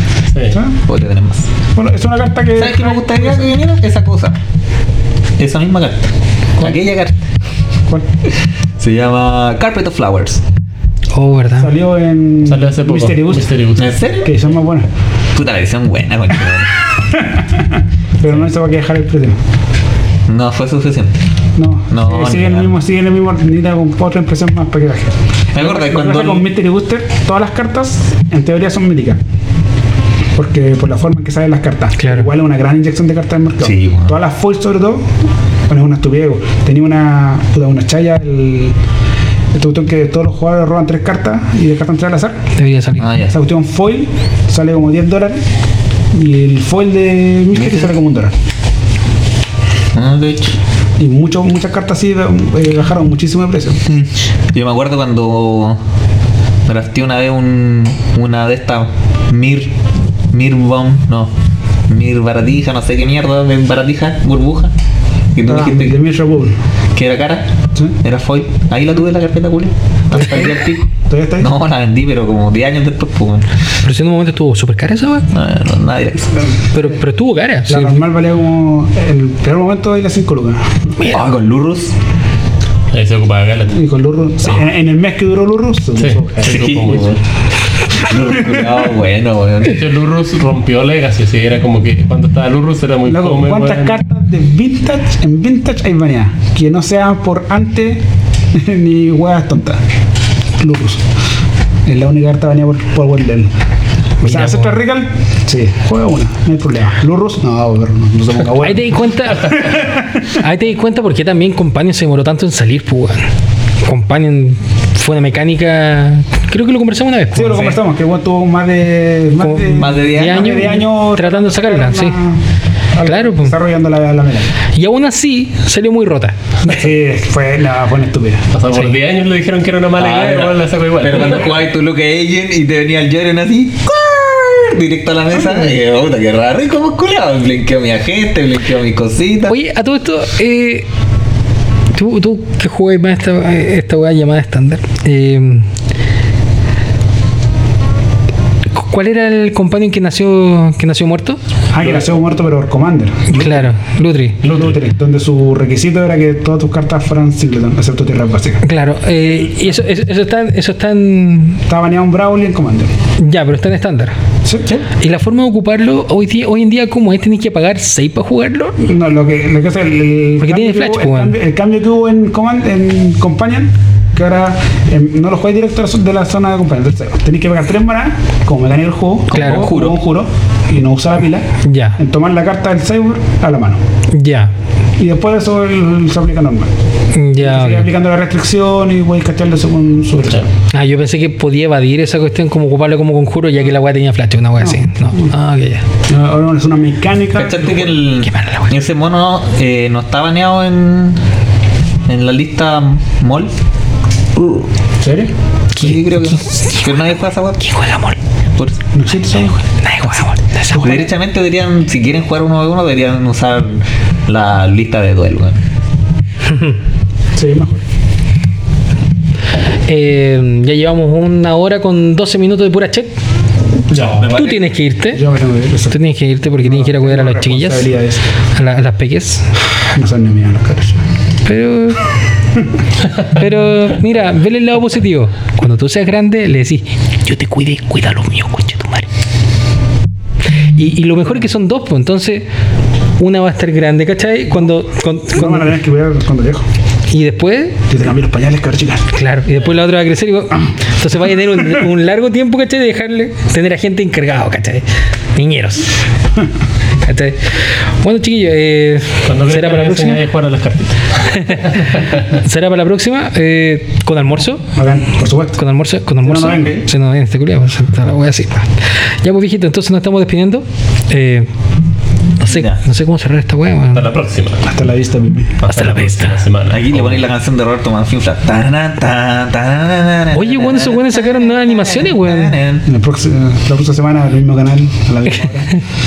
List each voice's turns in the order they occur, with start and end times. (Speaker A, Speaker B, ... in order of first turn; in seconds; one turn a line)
Speaker A: 0.3-0.6
Speaker B: 0.5-0.8
Speaker C: 0.9-1.5
Speaker B: 1.8-3.5
Speaker C: 2.6-4.4
Speaker C: 5.4-7.3
Speaker C: 8.8-10.4
Speaker D: 11.1-11.7
Speaker B: 11.6-13.5
Speaker A: 12.4-14.0
Speaker C: 13.8-14.3
Speaker B: 14.2-14.9
Speaker C: 15.3-16.8
Speaker B: 17.1-19.4
Speaker C: 20.3-21.1
Speaker B: 21.6-29.2
Speaker C: 21.9-22.7
Speaker C: 25.5-26.5
Speaker B: 30.4-35.1
Speaker D: 32.0-32.3
Speaker C: 33.6-34.1
Speaker B: 35.7-38.8
Speaker B: 39.5-42.4
Speaker D: 42.6-43.1
Speaker C: 43.0-43.3
Speaker B: 43.2-45.5
Speaker B: 46.1-48.3
Speaker C: 47.5-47.9
Speaker C: 49.9-50.6
Speaker B: 51.0-53.9
Speaker C: 53.9-55.8
Speaker C: 56.7-59.7
Speaker C: 60.3-61.3
Speaker C: 61.9-64.7
Speaker C: 65.3-66.0
Speaker B: 65.5-66.6
Speaker C: 67.0-67.5
Speaker C: 68.0-73.5
Speaker B: 70.1-71.5
Speaker D: 73.8-75.3
Speaker C: 75.3-76.5
Speaker D: 76.7-78.0
Speaker B: 77.7-80.9
Speaker C: 81.0-81.9
Speaker A: 82.9-83.8
Speaker B: 83.7-86.7
Speaker A: 86.0-87.2
Speaker C: 86.4-87.2
Speaker C: 87.9-89.8
Speaker B: 88.0-88.8
Speaker A: 89.6-94.0
Speaker B: 93.0-99.8
Speaker B: 100.6-101.1
Speaker B: 101.9-103.5
Speaker B: 104.2-110.3
Speaker D: 104.2-104.8
Speaker D: 108.6-113.3
Speaker D: 113.8-117.8
Speaker B: 117.3-122.4
Speaker D: 119.4-122.2
Speaker C: 119.7-120.5
Speaker B: 122.9-124.5
Speaker D: 123.0-123.5
Speaker D: 124.7-126.5
Speaker B: 126.6-128.5
Speaker A: 128.5-131.6
Speaker C: 130.0-139.6
Speaker D: 139.5-140.9
Speaker D: 141.9-145.7
Speaker D: 148.7-151.4
Speaker B: 151.7-153.7
Speaker A: 151.8-152.1
Speaker D: 153.3-154.4
Speaker A: 154.4-154.8
Speaker B: 154.5-158.6
Speaker D: 158.6-161.6
Speaker B: 161.7-162.9
Speaker D: 163.2-164.2
Speaker B: 164.4-164.8
Speaker D: 164.9-168.8
Speaker B: 168.8-183.8
Speaker D: 170.4-171.4
Speaker C: 179.3-180.0
Speaker D: 179.3-179.7
Speaker D: 181.6-182.0
Speaker D: 184.1-184.5
Speaker B: 185.0-186.7
Speaker D: 187.1-187.9
Speaker B: 187.4-190.5
Speaker A: 190.2-190.5
Speaker D: 190.7-195.9
Speaker B: 194.6-195.3
Speaker B: 196.1-198.0
Speaker C: 197.3-201.2
Speaker D: 198.2-198.8
Speaker C: 202.1-203.5
Speaker C: 204.4-204.7
Speaker B: 205.0-205.3
Speaker C: 205.8-207.6
Speaker D: 205.8-208.2
Speaker B: 208.9-210.1
Speaker D: 209.8-210.9
Speaker B: 210.7-211.1
Speaker C: 210.7-215.6
Speaker B: 217.3-217.8
Speaker D: 219.9-223.1
Speaker B: 223.9-224.4
Speaker A: 223.9-224.6
Speaker C: 224.2-224.5
Speaker D: 224.3-225.2
Speaker B: 225.1-228.2
Speaker D: 225.9-227.9
Speaker D: 228.6-229.6
Speaker B: 229.9-231.0
Speaker D: 231.4-232.0
Speaker D: 233.2-239.1
Speaker D: 240.7-242.5
Speaker D: 243.2-245.7
Speaker B: 245.3-246.7
Speaker D: 247.1-247.8
Speaker B: 247.9-249.1
Speaker D: 249.1-256.0
Speaker D: 257.0-260.2
Speaker A: 259.3-262.2
Speaker D: 261.3-264.7
Speaker B: 264.7-265.6
Speaker D: 265.6-268.7
Speaker B: 266.2-266.8
Speaker C: 266.5-266.7
Speaker D: 269.2-271.5
Speaker D: 272.4-274.1
Speaker C: 272.4-272.8
Speaker A: 273.9-274.7
Speaker B: 274.6-275.6
Speaker D: 275.6-276.4
Speaker A: 275.7-277.3
Speaker C: 276.7-282.9
Speaker D: 280.3-282.5
Speaker B: 282.9-285.7